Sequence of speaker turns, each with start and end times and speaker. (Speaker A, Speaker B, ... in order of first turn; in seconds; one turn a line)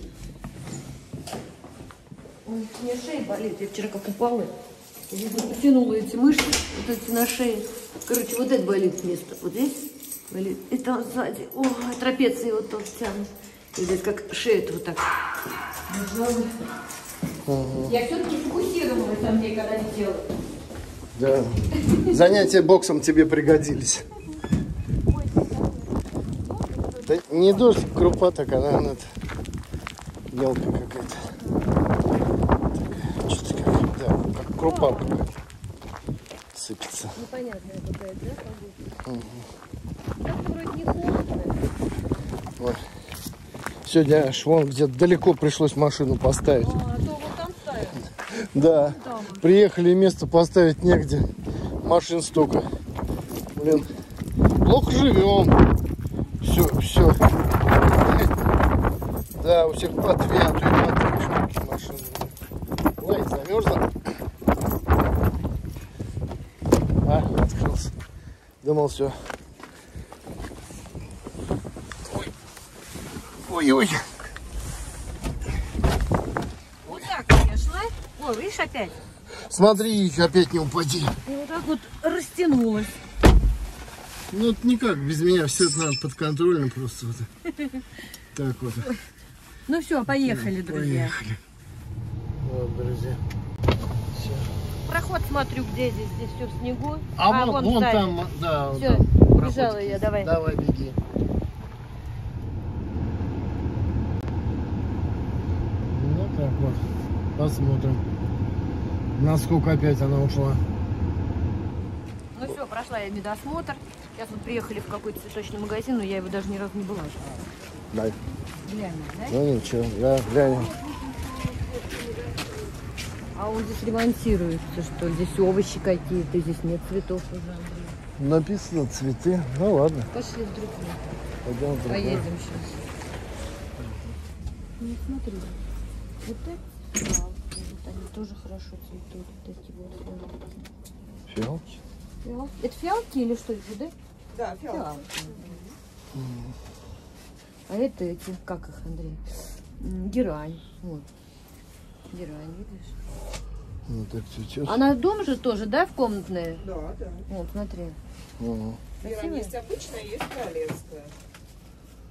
Speaker A: 2.5-4.5
Speaker A: 5.1-15.2
Speaker A: 15.9-16.7
Speaker B: 17.4-17.9
Speaker A: 17.9-20.3
Speaker B: 21.1-24.1
Speaker A: 21.7-22.1
Speaker B: 27.0-29.1
Speaker B: 30.3-31.4
Speaker B: 32.8-35.3
Speaker A: 34.6-35.2
Speaker B: 36.5-37.1
Speaker A: 37.1-38.9
Speaker B: 39.0-39.5
Speaker A: 40.2-41.6
Speaker B: 42.6-42.9
Speaker B: 43.8-46.7
Speaker A: 46.6-48.0
Speaker B: 48.3-52.7
Speaker A: 48.7-49.4
Speaker B: 53.5-53.9
Speaker B: 54.6-55.6
Speaker B: 56.4-57.3
Speaker B: 58.0-58.3
Speaker B: 59.4-62.4
Speaker B: 63.0-64.0
Speaker B: 67.0-67.9
Speaker B: 68.6-69.3
Speaker B: 73.3-74.2
Speaker A: 76.8-79.0
Speaker B: 79.3-81.2
Speaker A: 81.2-83.0
Speaker B: 84.3-87.3
Speaker A: 87.5-87.8
Speaker B: 88.3-88.9
Speaker A: 89.7-91.2
Speaker B: 90.2-91.4
Speaker B: 92.4-93.2
Speaker B: 94.1-94.5
Speaker A: 94.9-98.2
Speaker B: 97.2-101.0
Speaker A: 98.7-100.3
Speaker B: 105.8-108.0
Speaker B: 109.2-110.6
Speaker A: 112.3-117.2
Speaker B: 117.9-118.2
Speaker A: 118.6-119.4
Speaker B: 119.3-120.7
Speaker A: 120.5-122.6
Speaker A: 123.3-128.0
Speaker B: 128.2-130.1
Speaker A: 130.1-131.2
Speaker B: 131.4-132.3
Speaker A: 131.9-132.9
Speaker A: 134.8-135.6
Speaker A: 136.2-140.7
Speaker B: 141.3-141.7
Speaker A: 142.2-143.9
Speaker C: 144.3-145.8
Speaker A: 144.7-145.6
Speaker B: 146.1-146.5
Speaker A: 147.7-151.1
Speaker A: 152.1-153.0
Speaker B: 153.9-154.8
Speaker A: 154.6-156.6
Speaker C: 156.6-157.2
Speaker A: 157.3-158.0
Speaker B: 158.4-158.8
Speaker C: 159.0-161.1
Speaker A: 159.0-159.5